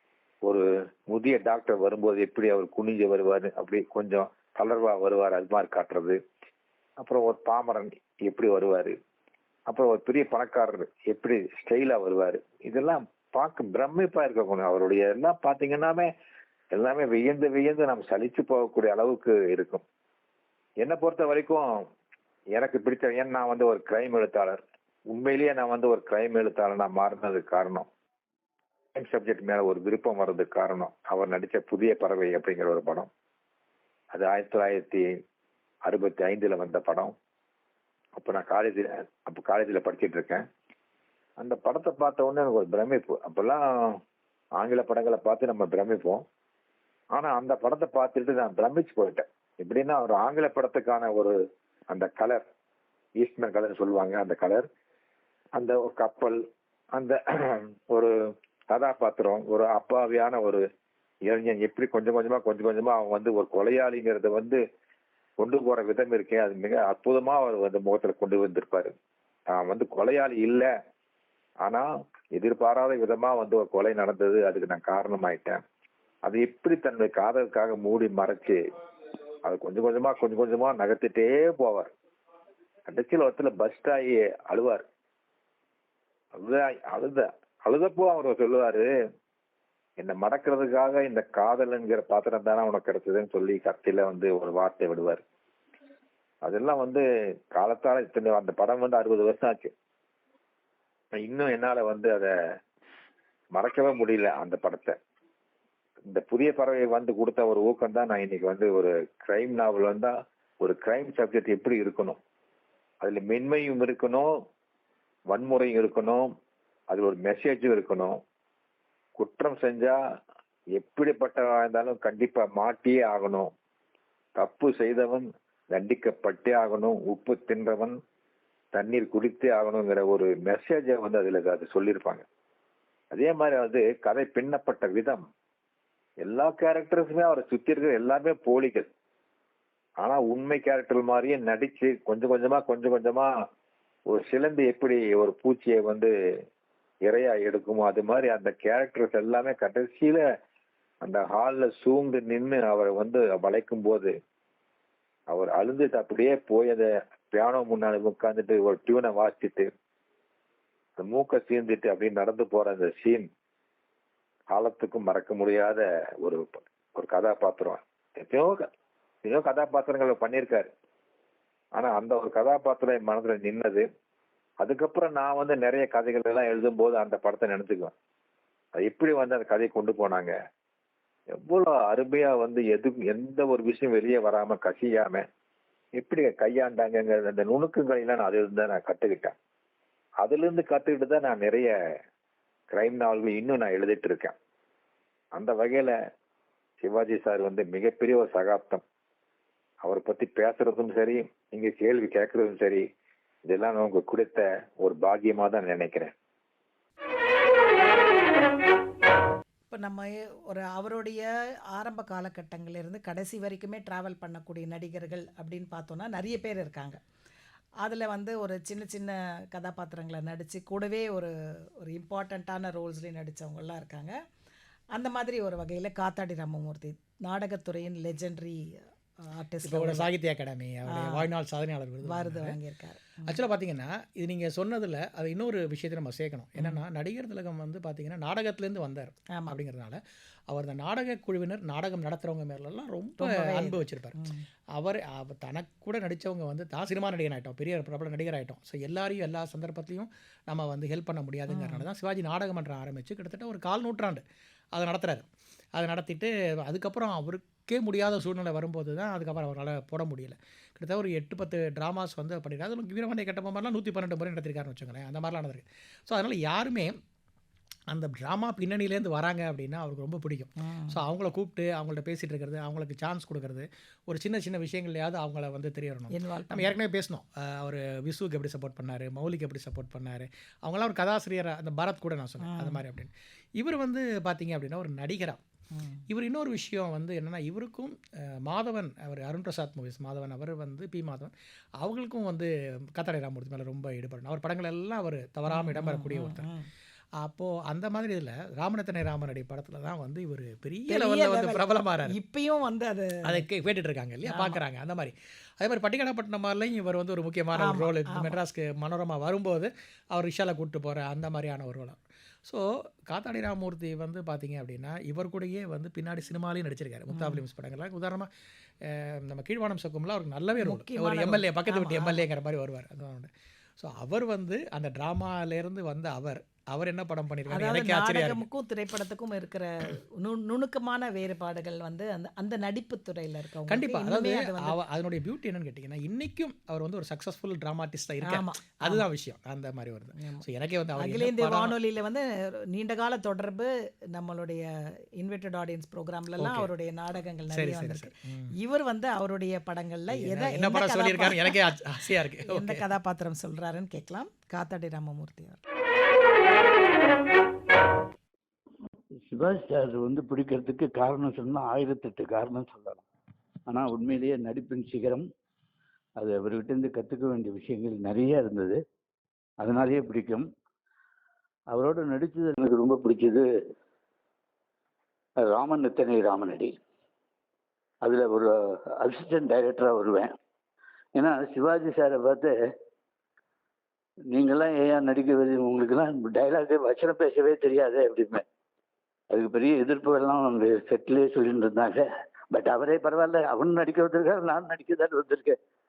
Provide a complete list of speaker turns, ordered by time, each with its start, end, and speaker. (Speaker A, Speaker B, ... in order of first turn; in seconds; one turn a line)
Speaker A: 0.4-6.2
Speaker A: 7.0-8.9
Speaker A: 9.7-16.1
Speaker A: 16.7-19.8
Speaker A: 20.8-21.6
Speaker A: 22.6-27.9
Speaker A: 28.9-33.1
Speaker A: 34.1-35.1
Speaker A: 35.9-37.1
Speaker A: 38.2-40.4
Speaker A: 41.4-44.0
Speaker A: 44.6-46.2
Speaker A: 47.1-51.4
Speaker A: 51.9-52.4
Speaker A: 53.2-54.7
Speaker A: 55.5-56.4
Speaker A: 56.9-58.1
Speaker A: 58.7-60.6
Speaker A: 61.3-64.6
Speaker A: 65.4-68.9
Speaker A: 69.5-70.7
Speaker A: 71.6-75.6
Speaker A: 76.2-78.6
Speaker A: 79.4-81.9
Speaker A: 82.9-84.8
Speaker A: 86.3-88.9
Speaker A: 90.0-95.2
Speaker A: 96.4-99.7
Speaker A: 101.1-102.3
Speaker A: 103.5-105.0
Speaker A: 106.1-112.2
Speaker A: 113.0-114.3
Speaker A: 115.3-116.3
Speaker A: 116.9-118.2
Speaker A: 119.2-120.0
Speaker A: 120.8-123.5
Speaker A: 124.3-128.0
Speaker A: 128.7-132.2
Speaker A: 133.1-135.2
Speaker A: 136.2-138.9
Speaker A: 140.0-143.3
Speaker A: 144.1-146.1
Speaker A: 147.0-150.2
Speaker A: 151.0-154.1
Speaker A: 155.3-159.7
Speaker A: 161.0-163.3
Speaker A: 164.5-168.7
Speaker A: 169.2-170.7
Speaker A: 171.8-173.8
Speaker A: 174.6-177.9
Speaker A: 178.8-180.3
Speaker A: 181.4-185.2
Speaker A: 186.0-189.3
Speaker A: 190.2-191.7
Speaker A: 192.7-194.3
Speaker A: 195.3-195.9
Speaker A: 196.8-198.8
Speaker A: 199.8-202.8
Speaker A: 203.5-206.1
Speaker B: 209.7-217.0
Speaker B: 217.8-224.2
Speaker B: 224.9-228.6
Speaker B: 229.3-230.1
Speaker C: 229.6-232.6
Speaker B: 230.9-231.3
Speaker B: 232.0-233.4
Speaker C: 233.3-244.2
Speaker B: 243.2-244.4
Speaker C: 244.8-254.2
Speaker B: 251.5-251.8
Speaker C: 254.7-267.0
Speaker C: 267.9-285.4
Speaker B: 270.6-271.0
Speaker B: 276.1-276.7
Speaker B: 282.4-282.8
Speaker B: 285.7-286.0
Speaker C: 286.1-296.5
Speaker B: 295.5-296.7
Speaker C: 297.2-302.1
Speaker B: 300.9-303.4
Speaker C: 303.2-318.3
Speaker B: 304.2-304.6
Speaker B: 307.6-308.4
Speaker B: 317.1-317.4
Speaker C: 318.8-328.4
Speaker B: 320.6-322.2
Speaker B: 327.5-334.8
Speaker C: 333.7-341.7
Speaker B: 338.2-339.0
Speaker B: 340.2-340.4
Speaker B: 341.0-344.7
Speaker B: 345.2-351.6
Speaker C: 346.4-346.7
Speaker C: 347.5-348.5
Speaker C: 350.1-352.8
Speaker B: 352.4-355.6
Speaker D: 359.3-363.0
Speaker D: 363.7-365.2
Speaker D: 366.2-368.8
Speaker D: 369.6-370.5
Speaker D: 371.7-373.4
Speaker D: 375.4-376.8
Speaker D: 378.0-380.3
Speaker D: 381.1-382.5
Speaker D: 384.3-388.4
Speaker D: 389.3-395.6